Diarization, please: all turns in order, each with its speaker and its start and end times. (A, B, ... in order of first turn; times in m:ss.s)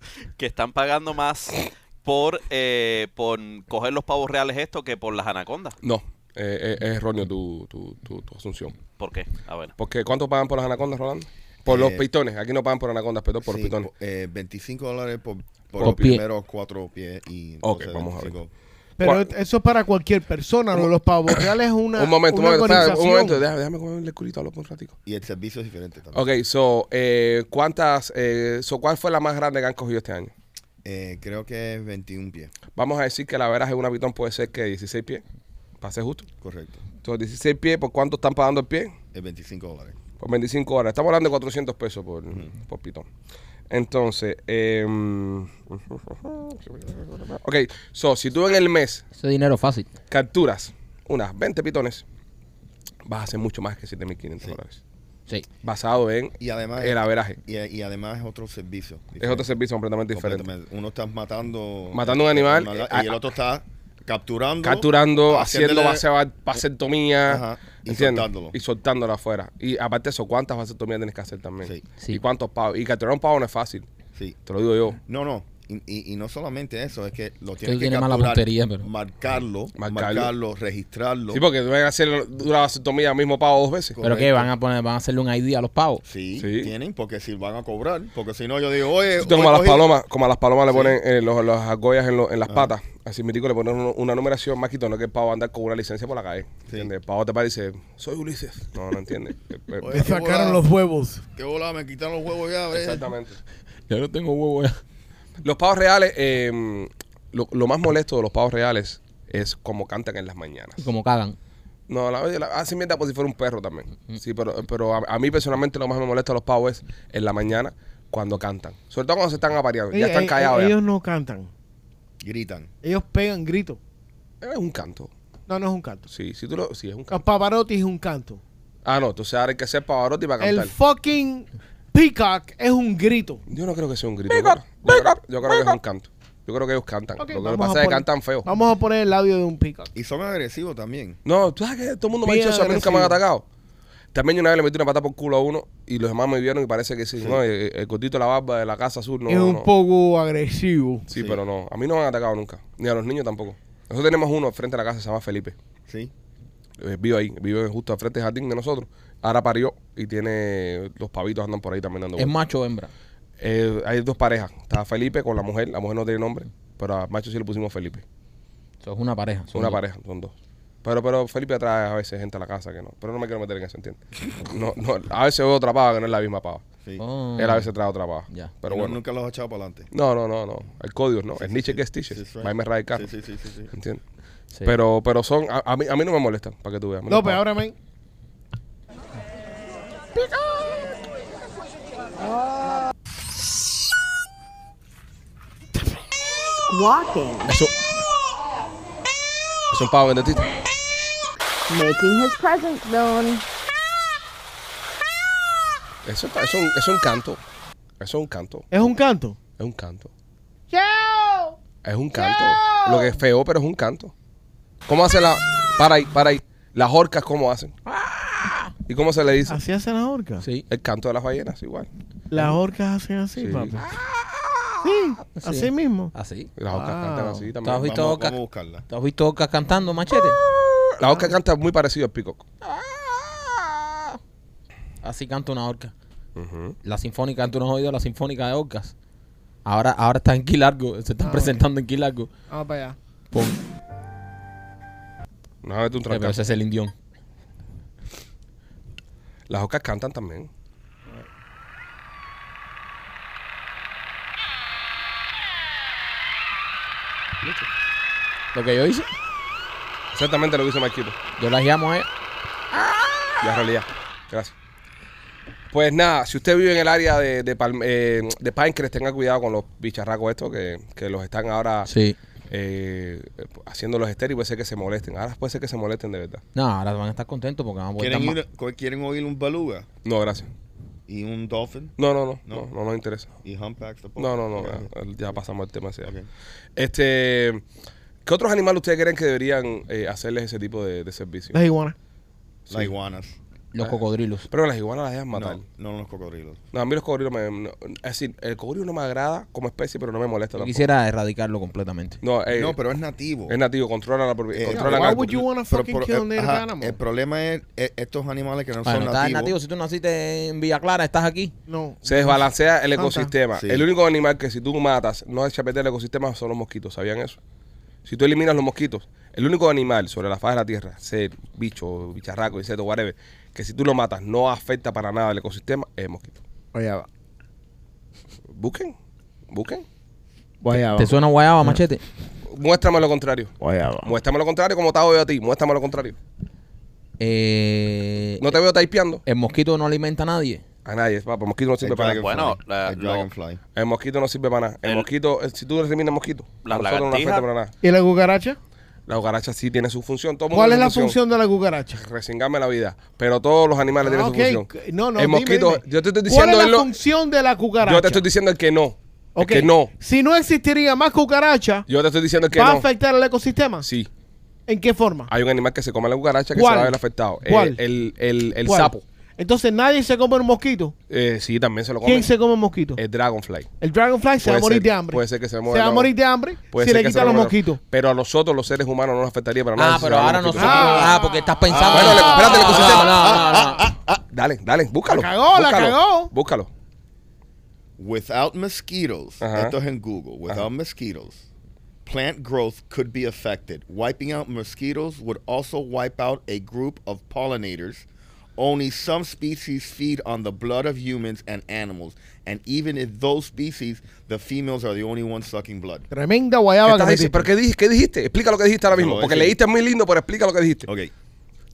0:00.4-0:05.8 A
0:05.8-0:08.8 B
0:08.9-0:09.7 A
0:09.8-0:13.9 B
0:11.7-0:12.0 C
0:13.4-0:18.5 C
0:15.8-0:16.2 B
0:15.8-0:16.2 D
0:17.6-0:18.4 B
0:19.0-0:23.4 E
0:20.7-0:25.0 B
0:25.0-0:26.2 C
0:26.1-0:30.3 B
0:30.8-0:32.5 C
0:32.7-0:35.2 B
0:35.8-0:36.3 B
0:36.4-0:36.8 C
0:37.0-0:38.9 B
0:39.1-0:40.0 C
0:40.2-0:43.0 B
0:43.7-0:49.0 B
0:49.1-0:49.9 D
0:50.1-0:52.0 B
0:53.0-0:54.8 B
0:55.6-0:57.4 B
0:56.4-0:59.5 C
0:59.2-1:00.4 B
1:00.1-1:06.0 C
1:01.9-1:03.2 B
1:04.6-1:13.9 B
1:07.3-1:08.6 C
1:14.4-1:15.0 B
1:15.0-1:21.4 C
1:17.6-1:18.9 D
1:19.8-1:20.3 B
1:21.3-1:24.0 B
1:24.0-1:24.5 C
1:24.0-1:26.0 D
1:26.0-1:29.9 C
1:26.4-1:26.7 B
1:29.2-1:40.0 B
1:30.7-1:31.0 C
1:39.8-1:40.6 C
1:39.9-1:41.2 E
1:41.3-1:43.2 C
1:42.7-1:43.4 B
1:43.9-1:44.8 D
1:45.4-1:50.8 B
1:50.8-1:51.4 D
1:51.9-2:00.7 B
1:59.9-2:01.5 E
2:02.2-2:02.7 C
2:02.8-2:03.8 E
2:04.4-2:05.1 B
2:05.5-2:06.0 E
2:06.1-2:07.2 B
2:07.1-2:08.4 E
2:08.8-2:10.7 B
2:10.4-2:13.4 E
2:13.5-2:18.5 B
2:14.3-2:15.8 D
2:17.2-2:19.9 E
2:20.0-2:21.2 C
2:21.2-2:23.4 B
2:22.2-2:23.2 E
2:24.1-2:29.7 B
2:29.3-2:31.1 E
2:31.1-2:35.6 B
2:31.1-2:31.4 C
2:36.8-2:42.3 B
2:42.2-2:42.9 D
2:43.4-2:48.0 B
2:48.8-2:49.8 D
2:49.5-2:50.3 B
2:50.8-2:54.0 B
2:54.5-2:56.6 B
2:57.0-2:57.7 D
2:57.4-2:59.0 B
2:58.7-2:59.9 C
2:59.9-3:03.0 B
3:01.4-3:03.7 C
3:03.7-3:04.0 B
3:04.6-3:07.4 B
3:07.1-3:07.7 E
3:16.7-3:17.6 F
3:19.7-3:20.5 B
3:21.7-3:23.4 F
3:26.0-3:27.4 B
3:28.0-3:28.7 B
3:28.7-3:29.4 E
3:29.6-3:30.1 B
3:30.7-3:31.6 E
3:31.8-3:34.1 B
3:32.1-3:33.2 E
3:34.9-3:37.7 B
3:37.9-3:38.7 D
3:38.9-3:39.6 B
3:39.5-3:40.4 E
3:40.4-3:40.7 D
3:40.7-3:41.9 B
3:42.3-3:44.0 E
3:43.4-3:43.7 B
3:44.8-3:46.1 E
3:45.3-3:46.5 D
3:46.6-3:47.9 B
3:46.7-3:47.5 E
3:47.6-3:48.4 D
3:47.8-3:48.8 C
3:48.9-3:50.4 D
3:50.8-3:52.4 B
3:51.1-3:51.3 E
3:52.6-3:54.2 D
3:55.0-3:55.9 D
3:56.4-3:56.7 B
3:56.8-3:58.9 D
3:59.6-4:02.3 D
4:01.2-4:01.6 E
4:02.5-4:03.0 E
4:03.3-4:03.6 D
4:05.6-4:06.4 B
4:06.1-4:06.9 D
4:09.5-4:10.5 B
4:18.5-4:19.1 D
4:20.1-4:21.2 B
4:21.4-4:22.1 D
4:22.8-4:23.3 D
4:23.4-4:24.5 B
4:25.7-4:31.9 B
4:31.8-4:32.2 D
4:32.5-4:36.4 B
4:36.6-4:38.4 D
4:38.0-4:39.9 C
4:40.0-4:40.5 B
4:41.1-4:42.7 C
4:42.0-4:43.3 B
4:43.4-4:44.9 C
4:44.2-4:46.1 B
4:46.8-4:47.6 B
4:48.2-4:51.6 B
4:51.5-4:52.0 E
4:52.7-4:53.4 C
4:53.7-4:54.5 D
4:54.5-4:55.6 B
4:55.3-4:56.6 C
4:56.7-5:00.8 B
5:00.6-5:02.2 D
5:02.2-5:02.8 B
5:02.5-5:03.6 C
5:03.5-5:05.4 B
5:04.5-5:09.6 C
5:04.7-5:07.0 E
5:08.8-5:11.5 D
5:11.7-5:13.3 E
5:12.0-5:17.4 B
5:13.5-5:13.9 C
5:18.0-5:26.4 B
5:26.7-5:27.1 E
5:28.5-5:28.9 B
5:29.5-5:29.8 B
5:30.6-5:31.1 E
5:30.9-5:32.0 D
5:32.5-5:33.5 B
5:33.6-5:34.1 E
5:34.0-5:36.2 B
5:37.2-5:38.6 D
5:38.4-5:39.2 B
5:39.3-5:40.6 D
5:40.8-5:42.2 B
5:41.8-5:43.6 C
5:42.2-5:43.3 A
5:43.8-5:47.7 B
5:46.6-5:47.5 A
5:47.8-5:48.6 E
5:49.1-5:51.2 B
5:50.5-5:52.0 E
5:52.0-5:56.9 B
5:54.0-5:58.3 E
5:57.8-5:59.9 B
5:59.3-6:01.9 E
6:01.9-6:02.9 B
6:02.5-6:03.9 E
6:03.8-6:04.1 B
6:04.7-6:05.3 E
6:05.3-6:09.0 B
6:06.5-6:07.8 E
6:08.6-6:10.9 E
6:11.1-6:12.3 B
6:12.0-6:13.0 E
6:13.0-6:13.7 B
6:13.8-6:17.8 E
6:14.4-6:21.1 B
6:19.8-6:23.9 D
6:20.6-6:23.6 E
6:21.7-6:24.2 C
6:21.9-6:23.3 B
6:24.3-6:26.7 B
6:25.1-6:26.3 E
6:28.0-6:31.4 C
6:29.4-6:29.7 B
6:32.0-6:38.0 C
6:38.6-6:46.1 C
6:46.1-6:47.5 E
6:46.8-6:50.9 B
6:48.9-6:49.6 C
6:50.9-6:51.1 C